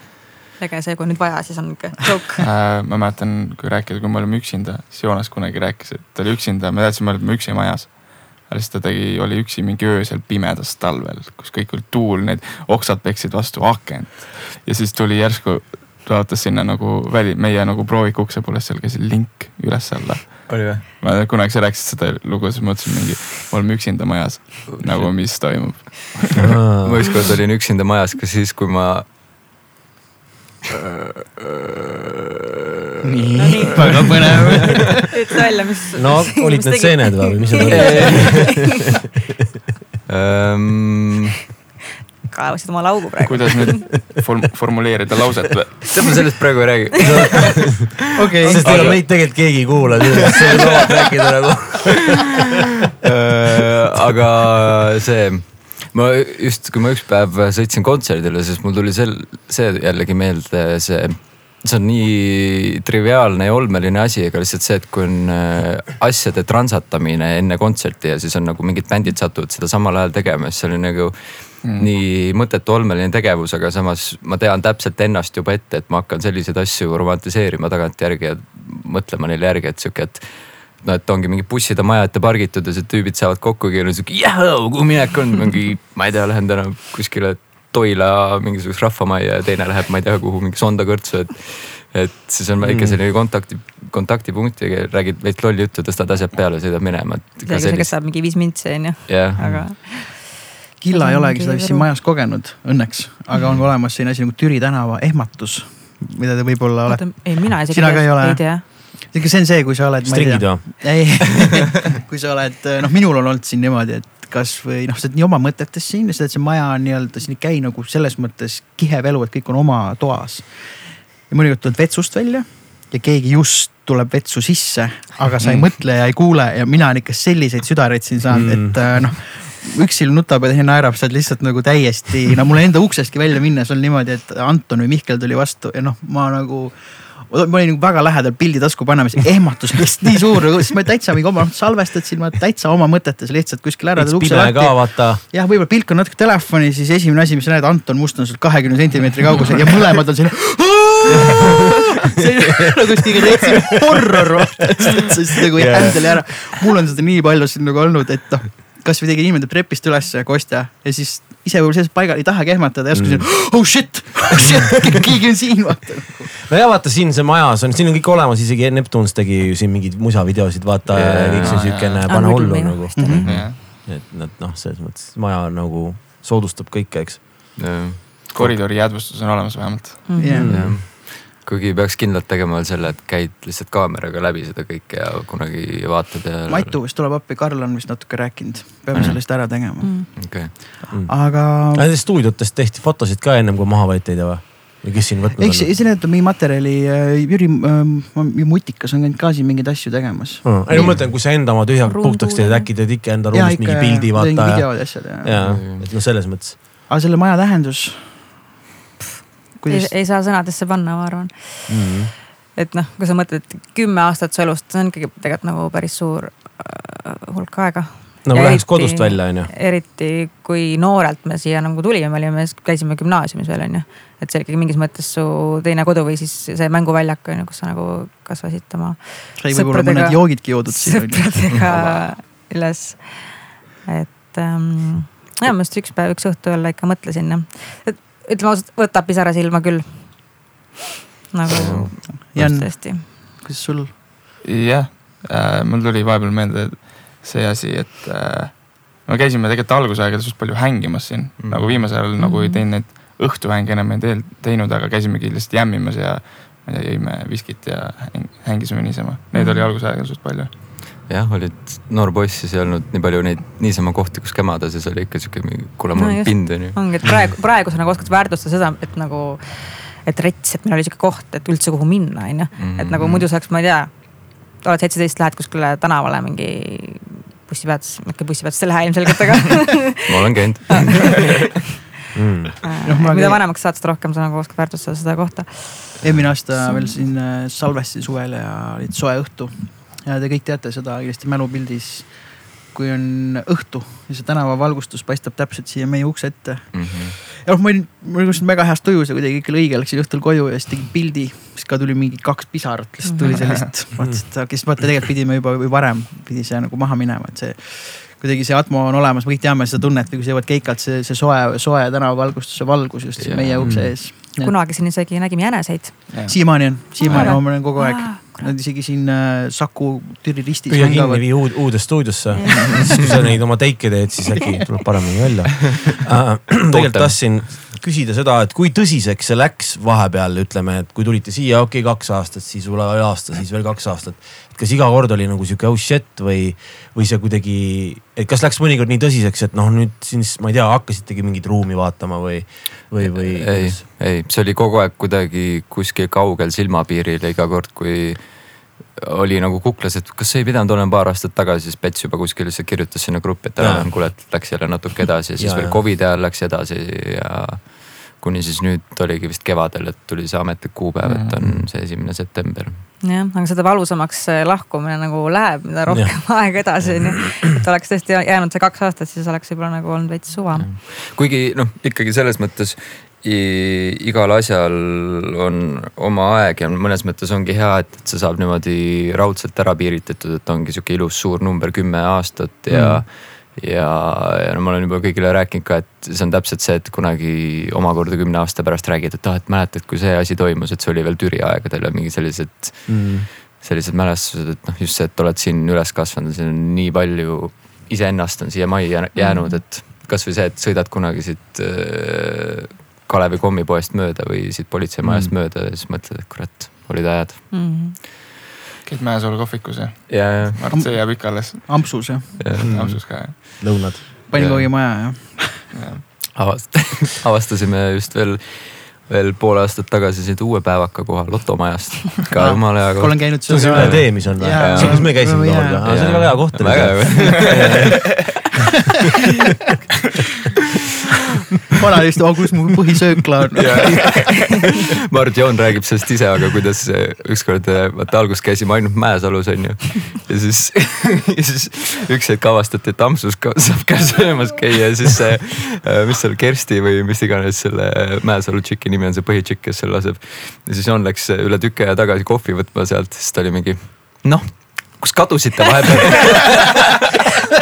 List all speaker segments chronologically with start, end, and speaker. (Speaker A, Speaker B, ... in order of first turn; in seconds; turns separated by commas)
Speaker A: 0.6-2.4, Speaker B: 2.4-26.5, Speaker C: 20.5-20.9, Speaker C: 24.7-25.1, Speaker D: 26.5-26.9, Speaker C: 26.8-29.1, Speaker D: 31.2-31.6, Speaker E: 33.0-35.0, Speaker A: 33.4-34.0, Speaker A: 35.1-38.6, Speaker D: 36.0-38.5, Speaker C: 37.6-38.6, Speaker C: 40.0-41.4, Speaker A: 42.3-44.1, Speaker B: 43.2-45.9, Speaker C: 45.9-47.9, Speaker D: 47.0-52.3, Speaker E: 48.1-48.6, Speaker C: 48.4-49.5, Speaker B: 48.7-49.0, Speaker C: 50.4-50.7, Speaker C: 53.0-98.0, Speaker B: 71.6-71.9, Speaker D: 92.6-93.0, Speaker A: 97.4-100.4, Speaker C: 99.1-99.7, Speaker E: 100.8-166.3, Speaker A: 100.9-101.9, Speaker A: 106.8-108.6, Speaker D: 110.0-111.3, Speaker B: 125.4-125.7, Speaker D: 128.3-128.8, Speaker D: 143.9-145.2, Speaker D: 155.5-155.9, Speaker D: 162.9-163.3, Speaker D: 166.5-177.8, Speaker C: 170.9-172.0, Speaker B: 171.4-172.1, Speaker A: 172.1-173.2, Speaker E: 172.9-173.3, Speaker C: 173.2-173.5, Speaker B: 173.2-173.6, Speaker C: 177.6-178.6, Speaker B: 178.2-180.3, Speaker A: 180.1-180.4, Speaker E: 180.2-180.5, Speaker D: 180.3-180.8, Speaker C: 180.4-186.8, Speaker E: 186.5-191.9, Speaker C: 188.9-189.5, Speaker A: 189.8-190.1, Speaker C: 190.2-190.5, Speaker D: 190.9-195.7, Speaker E: 195.4-200.9, Speaker D: 200.4-206.6, Speaker C: 200.7-201.0, Speaker A: 201.0-202.7, Speaker E: 203.3-205.8, Speaker C: 205.4-205.9, Speaker E: 206.9-208.4, Speaker E: 209.6-209.9, Speaker A: 209.7-240.5, Speaker D: 211.7-212.1, Speaker D: 218.2-219.5, Speaker E: 229.4-231.6, Speaker C: 231.6-232.1, Speaker A: 241.3-243.0, Speaker C: 241.5-241.9, Speaker E: 242.2-243.9, Speaker B: 244.4-260.5, Speaker C: 251.4-251.9, Speaker A: 252.2-252.6, Speaker A: 259.3-259.7, Speaker C: 261.0-266.9, Speaker A: 265.9-281.3, Speaker C: 272.6-273.2, Speaker B: 273.0-273.2, Speaker C: 280.1-281.0, Speaker D: 282.1-282.5, Speaker A: 282.6-287.0, Speaker E: 282.8-283.4, Speaker E: 286.0-314.5, Speaker C: 296.7-297.2, Speaker A: 303.1-303.4, Speaker C: 313.2-313.8, Speaker D: 313.6-313.9, Speaker A: 314.2-318.5, Speaker B: 316.1-317.4, Speaker E: 316.2-321.8, Speaker D: 320.7-343.8, Speaker C: 326.6-327.7, Speaker C: 343.0-362.8, Speaker D: 353.6-354.1, Speaker D: 355.4-355.8, Speaker B: 361.0-361.4, Speaker D: 361.4-361.7, Speaker A: 363.0-370.7, Speaker D: 365.9-366.7, Speaker C: 370.6-407.8, Speaker D: 382.7-383.0, Speaker D: 392.9-393.3, Speaker A: 399.1-399.6, Speaker D: 405.0-405.3, Speaker A: 407.5-407.9, Speaker B: 408.8-413.4, Speaker C: 410.1-410.7, Speaker E: 410.7-412.6, Speaker C: 412.4-412.9, Speaker D: 412.6-414.0, Speaker E: 414.3-415.6, Speaker C: 414.3-414.7, Speaker B: 415.7-416.0, Speaker C: 416.3-425.3, Speaker E: 422.3-426.2, Speaker D: 423.5-427.8, Speaker C: 425.8-428.5, Speaker E: 431.8-434.1, Speaker C: 433.6-456.9, Speaker B: 434.0-434.3